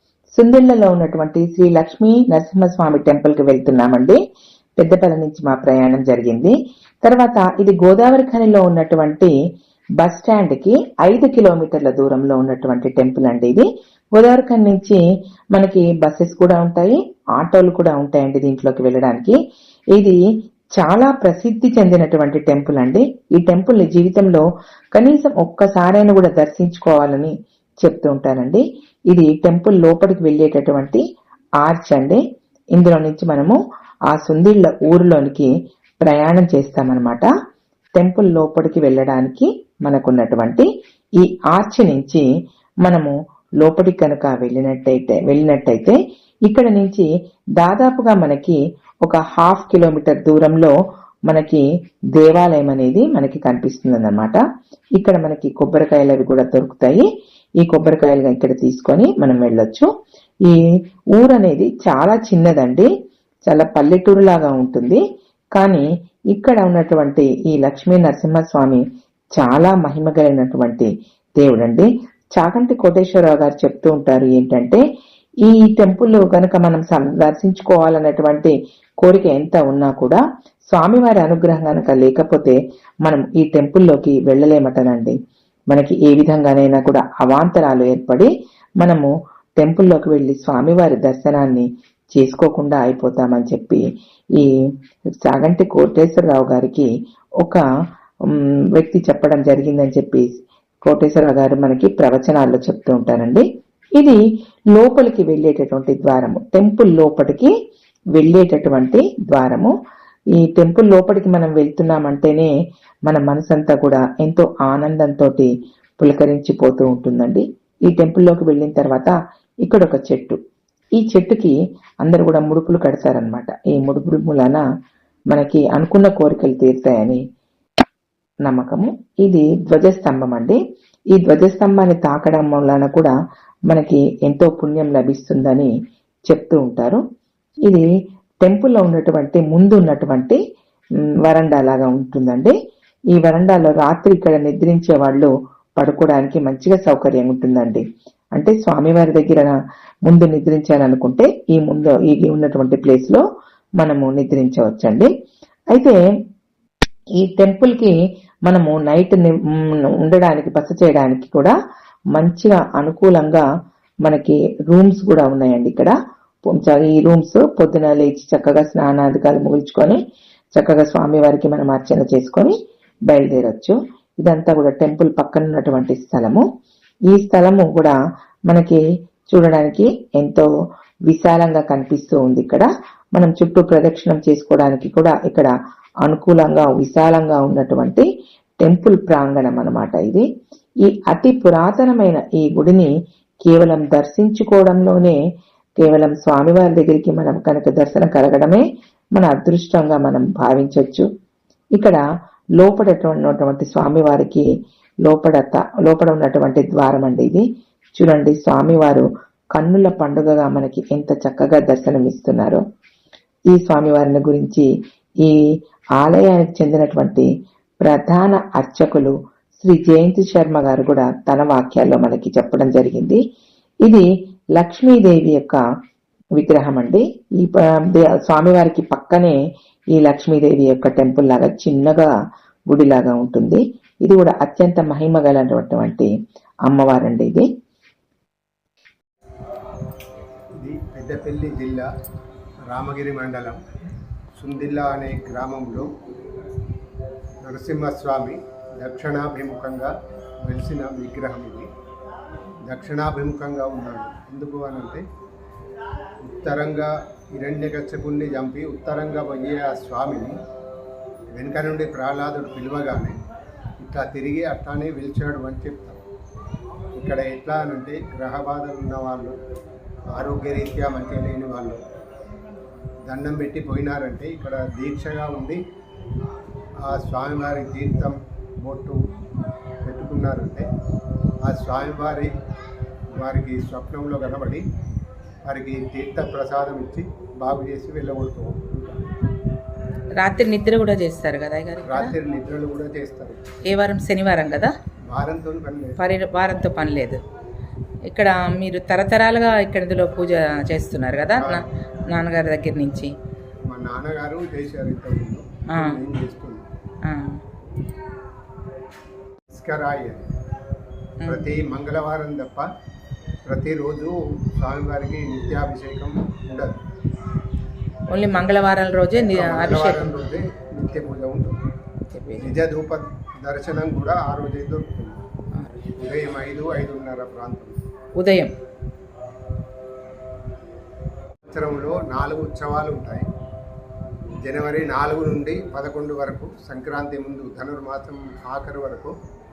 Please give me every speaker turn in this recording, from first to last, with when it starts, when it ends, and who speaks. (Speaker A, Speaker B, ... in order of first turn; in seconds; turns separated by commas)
Speaker A: 0.3-4.2, Speaker A: 4.8-9.3, Speaker A: 10.0-15.0, Speaker A: 15.5-19.4, Speaker A: 20.8-24.4, Speaker A: 24.9-31.0, Speaker A: 31.6-32.2, Speaker A: 32.8-33.6, Speaker A: 34.1-35.5, Speaker A: 36.0-37.3, Speaker A: 38.0-40.7, Speaker A: 41.2-42.2, Speaker A: 42.8-47.0, Speaker A: 47.6-50.7, Speaker A: 51.3-51.6, Speaker A: 52.1-54.4, Speaker A: 55.0-57.1, Speaker A: 57.6-59.9, Speaker A: 61.2-62.9, Speaker A: 63.5-65.0, Speaker A: 65.5-68.8, Speaker A: 69.3-74.8, Speaker A: 75.4-80.2, Speaker A: 80.7-85.1, Speaker A: 85.7-93.8, Speaker A: 95.2-96.9, Speaker A: 98.2-103.4, Speaker A: 104.0-107.5, Speaker A: 108.1-109.7, Speaker A: 110.4-112.5, Speaker A: 113.0-119.1, Speaker A: 119.6-120.4, Speaker A: 121.0-124.6, Speaker A: 125.3-127.2, Speaker A: 128.5-130.6, Speaker A: 131.1-133.1, Speaker A: 133.7-135.7, Speaker A: 136.3-137.0, Speaker A: 138.4-140.4, Speaker A: 141.2-142.6, Speaker A: 143.1-147.8, Speaker A: 148.4-149.6, Speaker A: 150.1-153.2, Speaker A: 153.8-155.1, Speaker A: 157.2-157.9, Speaker A: 158.5-161.6, Speaker A: 162.2-163.4, Speaker A: 164.1-165.9, Speaker A: 166.5-170.0, Speaker A: 170.6-172.6, Speaker A: 173.1-176.4, Speaker A: 177.1-177.9, Speaker A: 178.5-180.5, Speaker A: 181.1-185.5, Speaker A: 186.1-188.1, Speaker A: 188.6-190.2, Speaker A: 190.8-192.9, Speaker A: 193.5-195.2, Speaker A: 195.8-201.1, Speaker A: 201.8-202.0, Speaker A: 202.6-204.5, Speaker A: 205.1-207.4, Speaker A: 208.0-212.6, Speaker A: 213.5-214.7, Speaker A: 216.0-217.3, Speaker A: 217.8-223.2, Speaker A: 223.8-225.6, Speaker A: 226.4-229.4, Speaker A: 229.9-232.1, Speaker A: 232.7-236.1, Speaker A: 236.7-237.5, Speaker B: 240.6-241.9, Speaker B: 242.7-243.6, Speaker B: 244.3-245.9, Speaker B: 247.4-251.7, Speaker B: 252.7-255.0, Speaker B: 256.2-260.4, Speaker B: 261.4-263.2, Speaker B: 263.8-266.0, Speaker B: 266.9-269.4, Speaker B: 270.1-271.8, Speaker B: 273.1-275.6, Speaker B: 276.8-279.1, Speaker B: 279.8-280.7, Speaker B: 281.4-282.3, Speaker B: 283.2-284.6, Speaker B: 285.4-289.1, Speaker C: 290.1-292.1, Speaker B: 291.9-293.4, Speaker C: 293.7-294.7, Speaker B: 295.1-296.0, Speaker C: 296.0-297.2, Speaker C: 298.1-303.1, Speaker B: 301.4-301.6, Speaker B: 303.7-306.7, Speaker C: 305.7-306.0, Speaker C: 307.0-307.4, Speaker B: 309.5-310.4, Speaker C: 311.2-311.4, Speaker B: 311.2-312.7, Speaker B: 313.4-316.8, Speaker C: 318.1-320.1, Speaker B: 319.3-321.6, Speaker C: 322.1-322.5, Speaker B: 322.4-325.2, Speaker B: 325.9-327.8, Speaker C: 328.2-328.5, Speaker B: 331.5-333.3, Speaker B: 334.4-339.1